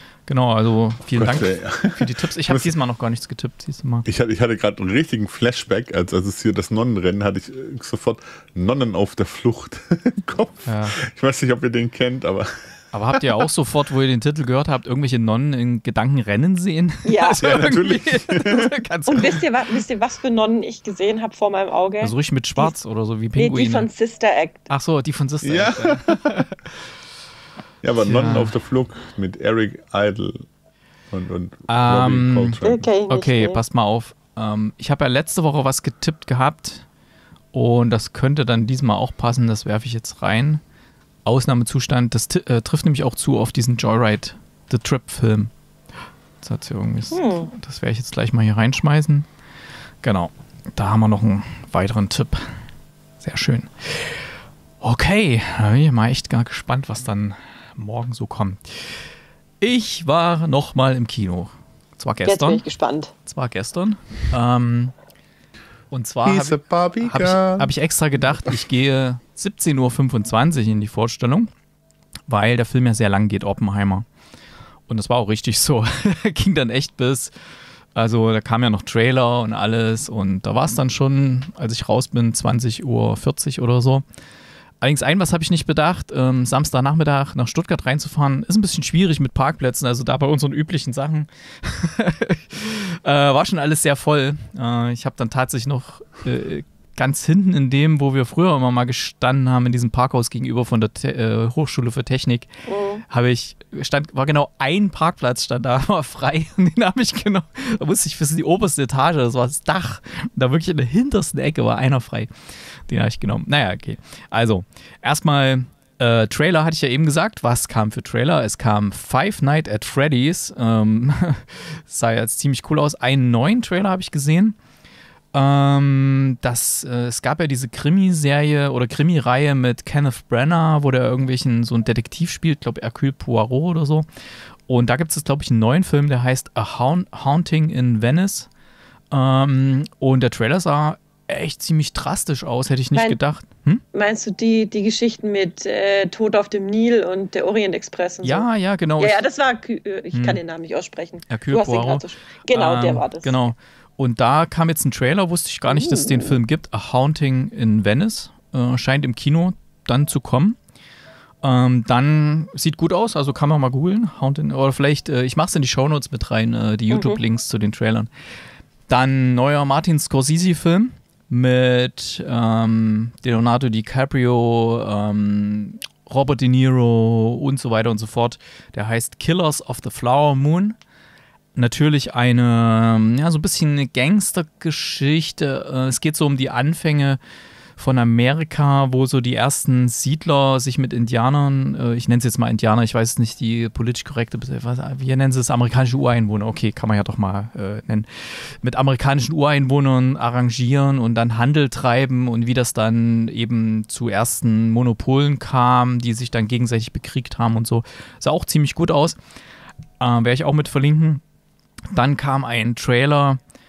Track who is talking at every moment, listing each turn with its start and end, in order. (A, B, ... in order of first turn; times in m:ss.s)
0:00.3-0:04.0 A
0:01.1-0:02.7 B
0:04.0-0:13.3 B
0:10.6-0:11.0 A
0:12.9-0:19.5 A
0:17.0-0:17.5 C
0:17.4-0:18.7 B
0:19.1-0:22.7 C
0:22.0-0:23.9 A
0:23.4-0:24.7 C
0:24.7-0:26.5 A
0:25.4-0:26.5 B
0:27.8-0:30.4 B
0:28.0-0:28.6 A
0:31.1-0:32.9 B
0:31.7-0:36.8 A
0:32.6-0:33.6 C
0:37.5-0:40.6 A
0:41.2-0:45.5 A
0:46.4-0:49.3 A
0:47.1-0:47.5 C
0:50.0-0:52.5 A
0:53.2-0:54.2 A
0:54.8-0:58.9 A
0:59.6-1:02.6 A
1:02.2-1:03.1 C
1:03.2-1:04.9 A
1:05.9-1:11.5 A
1:06.2-1:07.7 B
1:12.3-1:14.0 A
1:14.9-1:17.3 A
1:17.9-1:24.0 A
1:24.8-1:42.5 A
1:42.7-1:43.0 C
1:43.1-1:52.3 A
1:52.9-2:04.6 A
2:05.3-2:14.0 A
2:14.7-2:18.5 A
2:19.1-2:23.8 A
2:23.9-2:28.5 C
2:28.2-2:29.2 A
2:29.0-2:33.4 C
2:30.1-2:30.4 A
2:31.3-2:40.6 A
2:35.7-2:36.4 C
2:41.4-2:48.1 A
2:46.9-2:47.2 C
2:48.9-3:00.8 A
3:01.5-3:07.2 A
3:07.8-3:29.2 A
3:30.0-3:31.2 A
3:31.9-3:33.4 A